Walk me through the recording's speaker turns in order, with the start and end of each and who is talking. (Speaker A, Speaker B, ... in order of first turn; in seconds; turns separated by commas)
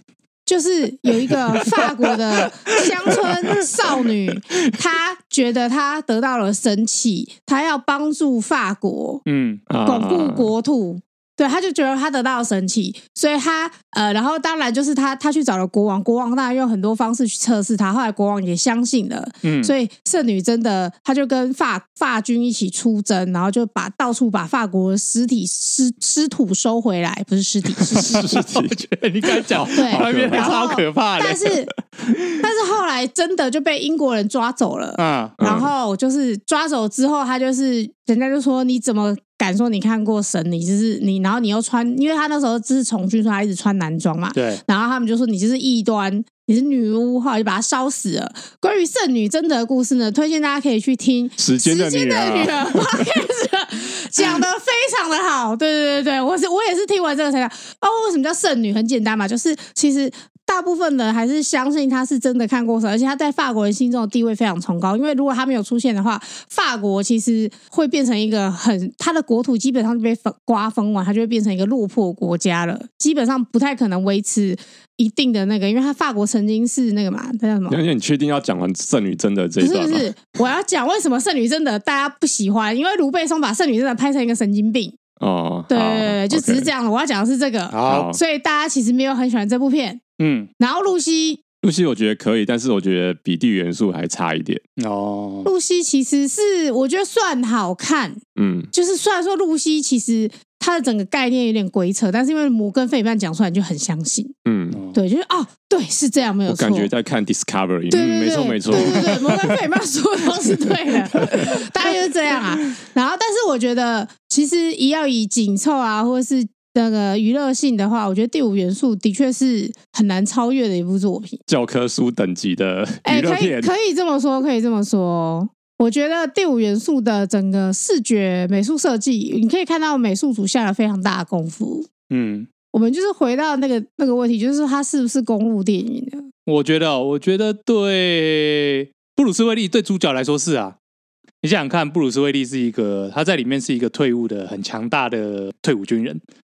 Speaker A: 0.5-9.2, Speaker B: 9.2-9.6, Speaker C: 9.7-10.5, Speaker A: 9.8-28.2, Speaker B: 19.4-19.7, Speaker C: 27.8-30.5, Speaker B: 28.1-32.2, Speaker A: 29.7-31.7, Speaker A: 32.4-77.8, Speaker B: 35.0-35.4, Speaker C: 35.4-35.7, Speaker B: 44.4-44.6, Speaker C: 51.4-53.1, Speaker C: 77.7-80.1, Speaker A: 79.6-85.0, Speaker C: 85.2-86.7, Speaker A: 85.7-90.0, Speaker B: 87.7-88.1, Speaker C: 87.9-88.2, Speaker B: 90.2-90.5, Speaker A: 90.6-91.4, Speaker C: 91.6-94.6, Speaker B: 94.8-95.5, Speaker A: 95.4-98.2, Speaker C: 98.4-98.7, Speaker A: 98.7-104.3, Speaker C: 104.4-104.8, Speaker B: 104.7-105.0, Speaker A: 104.9-106.9, Speaker C: 106.5-109.6, Speaker A: 107.9-121.4, Speaker C: 121.5-123.7, Speaker A: 123.0-131.9, Speaker B: 132.1-132.5, Speaker A: 132.7-136.3, Speaker B: 136.5-140.8, Speaker B: 141.4-146.2